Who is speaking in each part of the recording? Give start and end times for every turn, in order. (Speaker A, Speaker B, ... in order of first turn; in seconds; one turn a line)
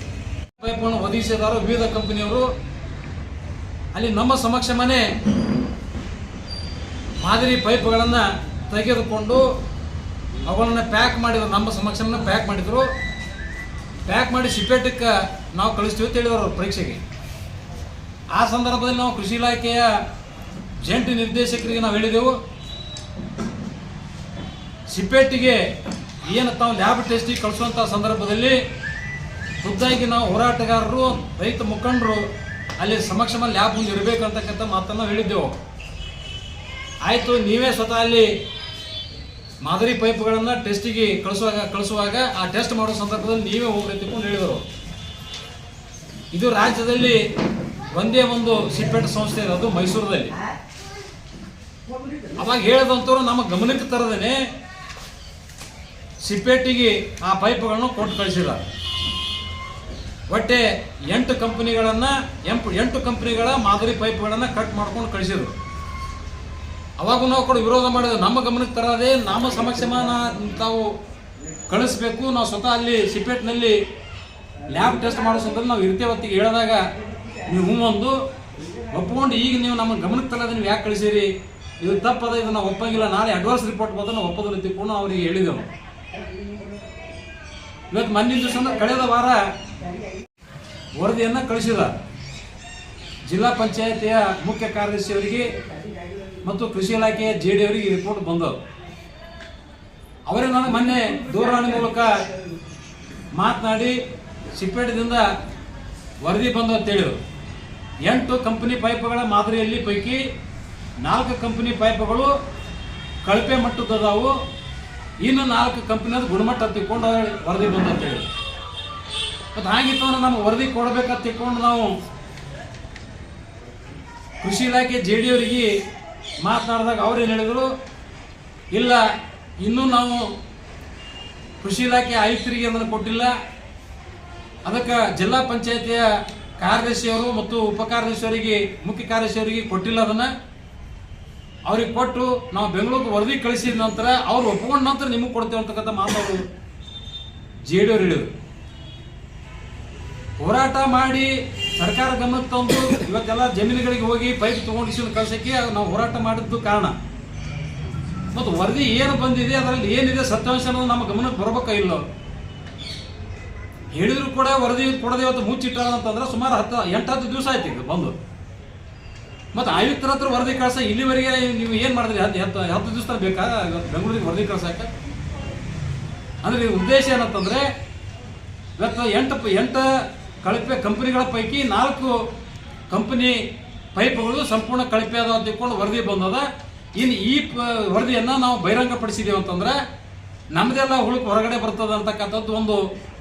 Speaker A: 0.6-2.5
Speaker A: 3.9-5.0
Speaker A: 7.2-9.4
Speaker A: 10.4-12.9
Speaker A: 14.1-17.0
Speaker A: 18.3-19.9
Speaker A: 20.8-22.3
Speaker A: 24.9-25.6
Speaker A: 26.2-28.6
Speaker A: 29.6-32.2
Speaker A: 32.8-35.6
Speaker A: 37.0-38.3
Speaker A: 39.6-44.6
Speaker A: 46.3-47.2
Speaker A: 47.9-50.3
Speaker A: 52.3-54.4
Speaker A: 56.2-58.6
Speaker A: 60.3-65.5
Speaker A: 67.0-70.9
Speaker A: 71.7-73.8
Speaker A: 74.7-76.8
Speaker A: 77.4-78.2
Speaker A: 78.9-81.3
Speaker A: 81.8-85.7
Speaker A: 87.9-89.4
Speaker A: 91.0-91.9
Speaker A: 93.3-95.5
Speaker A: 96.4-98.6
Speaker A: 100.3-102.2
Speaker A: 103.3-104.0
Speaker A: 104.5-105.2
Speaker A: 106.2-107.2
Speaker A: 108.0-110.2
Speaker A: 111.0-112.3
Speaker A: 113.2-114.3
Speaker A: 115.2-118.3
Speaker A: 119.5-121.9
Speaker A: 124.4-125.7
Speaker A: 126.4-127.7
Speaker A: 128.7-129.0
Speaker A: 129.6-130.3
Speaker A: 131.6-133.3
Speaker A: 134.7-136.1
Speaker A: 136.6-140.3
Speaker A: 141.7-146.4
Speaker A: 147.6-148.3
Speaker A: 150.4-156.9
Speaker A: 158.3-162.0
Speaker A: 163.9-168.2
Speaker A: 169.5-174.9
Speaker A: 176.4-177.7
Speaker A: 178.8-179.9
Speaker A: 180.4-182.2
Speaker A: 182.9-183.4
Speaker A: 183.9-186.5
Speaker A: 187.0-189.8
Speaker A: 190.5-192.8